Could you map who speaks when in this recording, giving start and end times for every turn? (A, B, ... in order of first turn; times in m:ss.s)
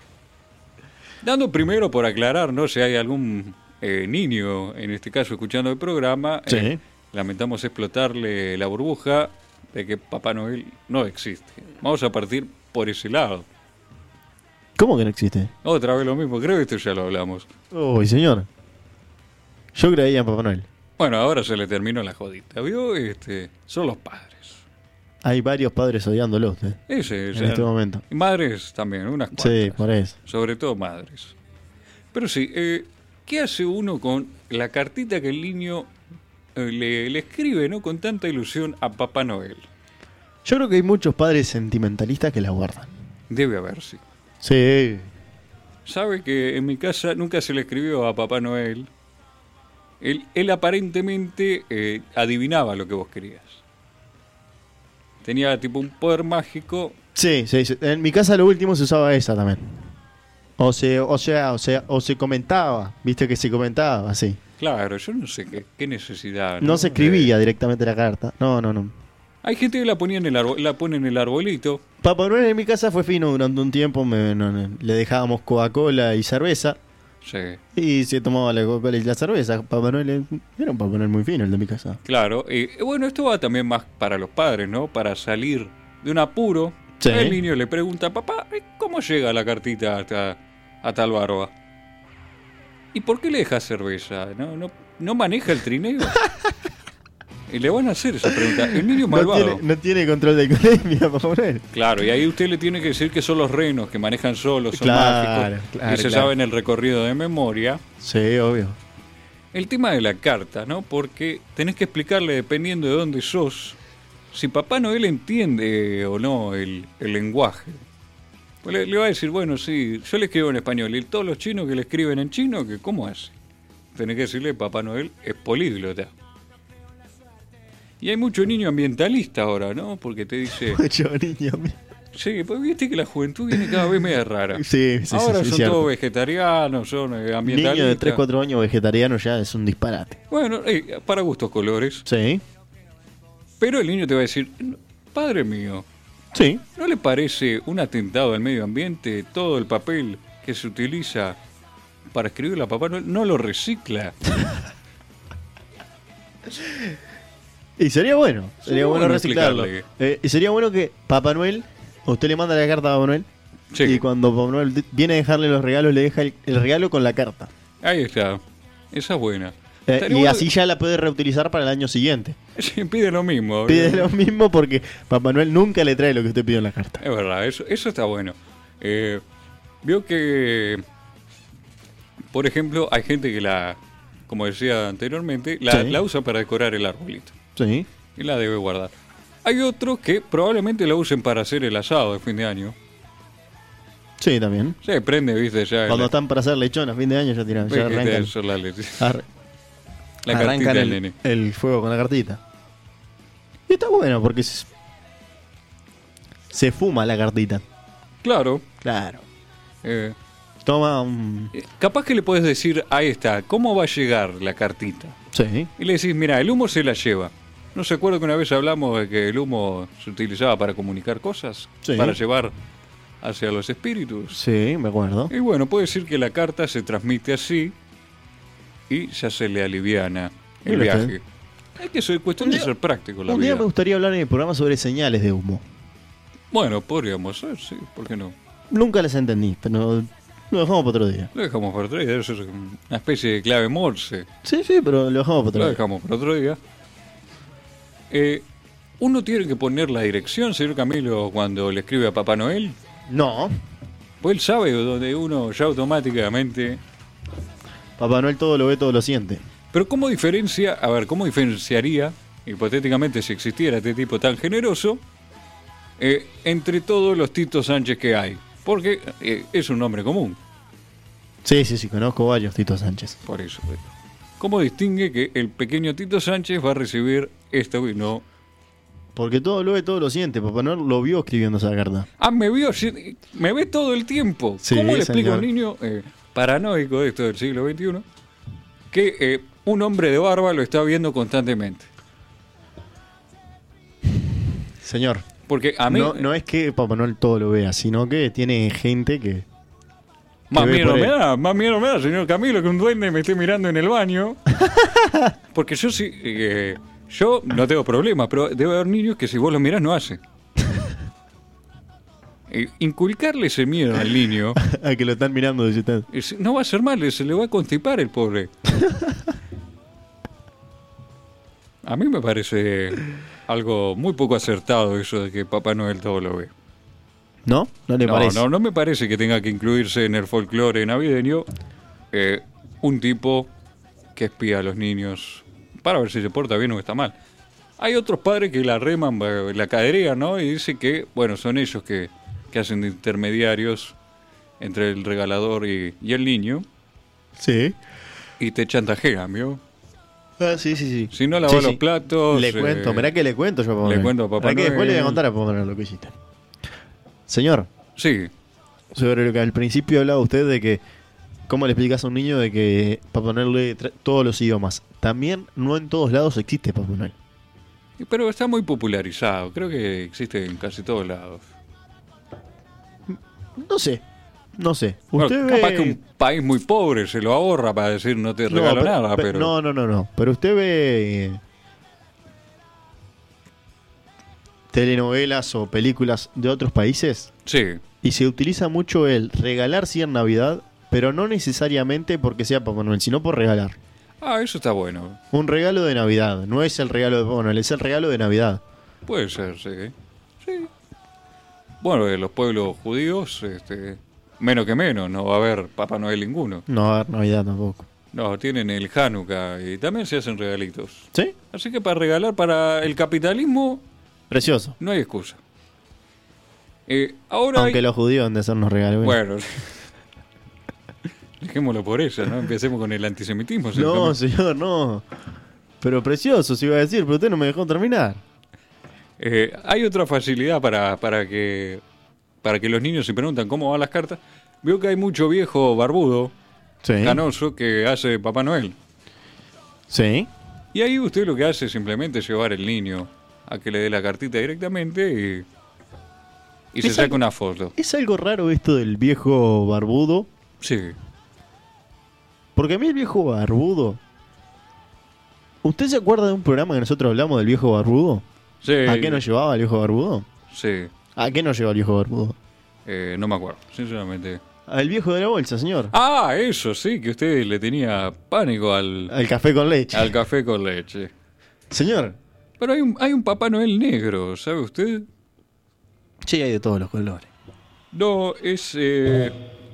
0:01.2-0:13.5 A
0:06.5-0:06.8 B
0:14.8-0:15.5 B
0:15.6-0:17.5 A
0:17.7-0:18.5 B
0:19.7-0:20.7 B
0:21.0-0:24.6 A
0:25.2-0:26.8 B
0:26.9-0:31.3 A
0:27.3-0:28.0 B
0:29.3-0:30.1 B
0:32.1-0:35.9 A
0:36.6-0:39.7 A
0:40.4-0:42.9 B
0:43.3-0:44.0 A
0:44.4-0:45.1 B
0:45.8-0:48.9 A
0:50.0-0:53.6 A
0:55.2-0:57.0 A
0:57.1-0:59.9 B
1:00.6-1:04.4 B
1:04.6-1:07.3 A
1:06.6-1:08.9 B
1:09.4-1:11.8 A
1:12.0-1:16.8 B
1:17.2-1:17.6 A
1:17.7-1:22.0 B
1:22.0-1:31.5 A
1:27.0-1:27.4 B
1:32.9-1:36.2 A
1:37.5-1:39.6 A
1:38.3-1:41.6 B
1:41.7-1:47.8 A
1:44.7-1:46.3 B
1:48.0-1:48.8 B
1:49.5-1:53.8 A
1:54.3-1:57.8 A
1:58.6-2:03.4 A
2:03.9-2:06.1 A
2:08.0-2:10.8 A
2:10.6-2:11.8 B
2:12.1-2:18.2 A
2:13.5-2:13.9 B
2:14.5-2:15.9 B
2:17.4-2:20.2 B
2:20.3-2:22.0 A
2:22.0-2:22.4 B
2:23.6-2:25.8 A
2:26.3-2:26.6 B
2:26.7-2:31.4 A
2:32.1-2:34.2 A
2:37.8-2:43.3 B
2:38.6-2:39.8 A
2:43.7-2:44.0 A
2:43.8-2:47.5 B
2:47.8-2:50.5 A
2:49.9-2:52.4 B
2:52.6-2:54.1 A
2:53.7-2:57.0 B
2:57.0-2:59.2 A
2:59.8-3:00.8 A
3:02.3-3:07.4 A
3:05.7-3:06.0 B
3:07.6-3:07.9 B
3:08.2-3:08.9 A
3:09.4-3:12.8 A
3:14.2-3:14.8 B
3:14.8-3:16.1 A
3:15.9-3:18.3 B
3:17.6-3:19.2 A
3:19.0-3:19.2 B
3:20.2-3:21.1 A
3:20.3-3:22.4 B
3:23.7-3:24.7 B
3:26.5-3:27.6 B
3:28.2-3:28.6 A
3:28.8-3:29.2 B
3:29.8-3:30.2 A
3:30.6-3:31.5 B
3:31.5-3:35.2 A
3:35.3-3:35.7 B
3:35.8-3:42.5 A
3:41.8-3:42.2 B
3:43.2-3:44.4 A
3:44.3-3:45.3 B
3:45.3-3:47.7 A
3:48.9-3:51.2 A
3:50.6-3:51.1 B
3:51.8-3:53.6 A
3:52.4-3:52.7 B
3:53.3-3:55.6 B
3:56.5-3:58.4 A
3:58.7-4:01.3 B
4:01.3-4:04.3 A
4:04.4-4:05.8 B
4:05.5-4:06.6 A
4:08.1-4:08.4 A
4:09.0-4:12.8 A
4:13.1-4:13.5 B
4:14.2-4:16.8 A
4:18.0-4:19.4 B
4:19.7-4:25.0 A
4:26.0-4:30.4 A
4:31.4-4:33.2 B
4:33.2-4:38.2 A
4:39.1-4:42.1 B
4:42.2-4:48.0 A
4:44.6-4:45.5 B
4:48.9-4:51.9 A
4:54.8-4:55.2 B
4:55.5-4:56.3 A
4:55.8-4:59.4 B
5:00.5-5:04.4 A
5:00.5-5:01.1 B
5:04.6-5:05.3 B
5:05.5-5:10.2 A
5:12.5-5:14.6 A
5:14.6-5:16.1 B
5:16.1-5:18.5 A
5:18.7-5:19.2 B
5:21.8-5:26.5 A
5:27.4-5:28.4 B
5:28.0-5:31.5 A
5:32.1-5:33.5 A
5:34.1-5:37.1 A
5:37.8-5:44.0 A
5:44.6-5:46.6 A
5:47.4-5:47.8 B
5:48.4-5:49.6 A
5:50.4-5:56.2 B
5:51.1-5:53.1 A
5:53.8-5:55.2 A
5:57.3-5:57.7 B
5:58.0-5:58.3 A
5:58.9-6:00.8 B
6:01.5-6:07.1 B
6:08.0-6:11.5 A
6:13.1-6:14.0 B
6:14.6-6:16.0 B
6:15.2-6:19.5 A
6:18.5-6:21.4 B
6:24.7-6:27.3 B
6:27.4-6:27.8 A
6:28.0-6:33.8 B
6:34.2-6:35.2 A
6:35.3-6:38.6 B
6:39.0-6:40.7 A
6:41.8-6:46.6 A
6:46.7-6:47.8 B
6:48.1-6:53.8 A
6:54.3-6:54.8 B
6:54.8-6:55.4 A
6:56.9-6:57.8 A
6:57.5-6:59.2 B
6:59.0-6:59.7 A
7:01.4-7:04.2 A
7:03.7-7:05.0 B
7:05.8-7:08.2 B
7:09.2-7:11.8 A
7:12.4-7:16.3 A
7:16.8-7:17.2 B
7:17.0-7:18.8 A
7:19.9-7:20.3 B
7:20.7-7:25.5 A
7:26.7-7:27.7 A
7:26.8-7:27.2 B
7:27.8-7:30.3 B
7:30.6-7:31.0 A
7:32.6-7:34.0 B
7:35.6-7:38.2 B
7:38.6-7:39.2 A
7:38.8-7:40.2 B
7:40.5-7:40.9 A
7:41.2-7:42.4 B
7:42.8-7:44.4 A
7:44.7-7:45.9 B
7:45.9-7:49.1 A
7:49.1-7:50.1 B
7:49.9-7:51.1 A
7:51.7-7:52.2 B
7:52.6-7:55.1 A
7:56.2-7:57.3 B
7:57.9-7:59.3 A